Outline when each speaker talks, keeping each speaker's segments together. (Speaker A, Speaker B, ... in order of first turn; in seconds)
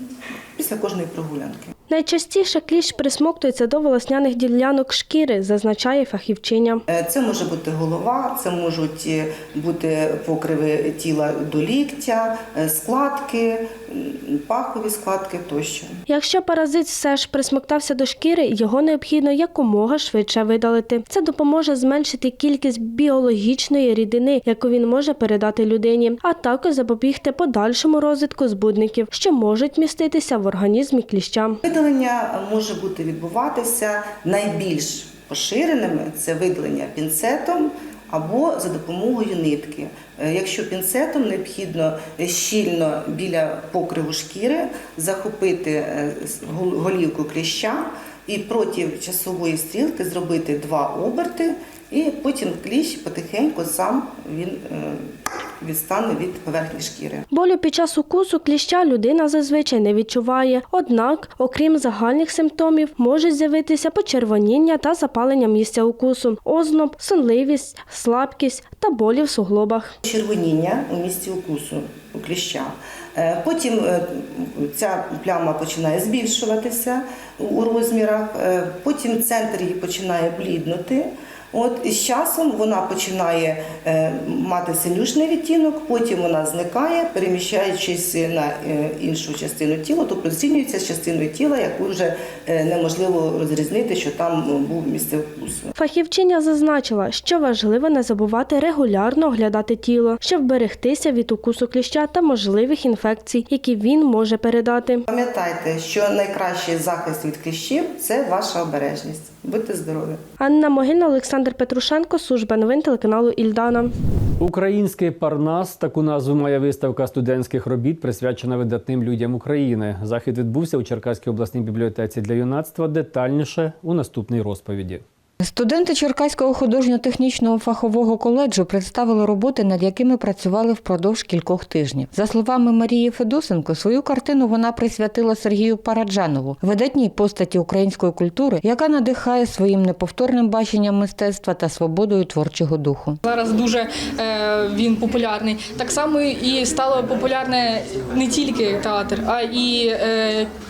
Speaker A: 0.6-1.7, 6.9-15.9, 31.6-55.1, 55.6-57.2, 70.0-95.7, 105.1-110.2
Speaker B: 1.9-6.8, 16.1-31.6, 57.3-69.9, 95.7-105.0, 110.4-113.9
Speaker C: 114.4-125.0
Speaker D: 125.4-143.2
Speaker E: 143.2-150.5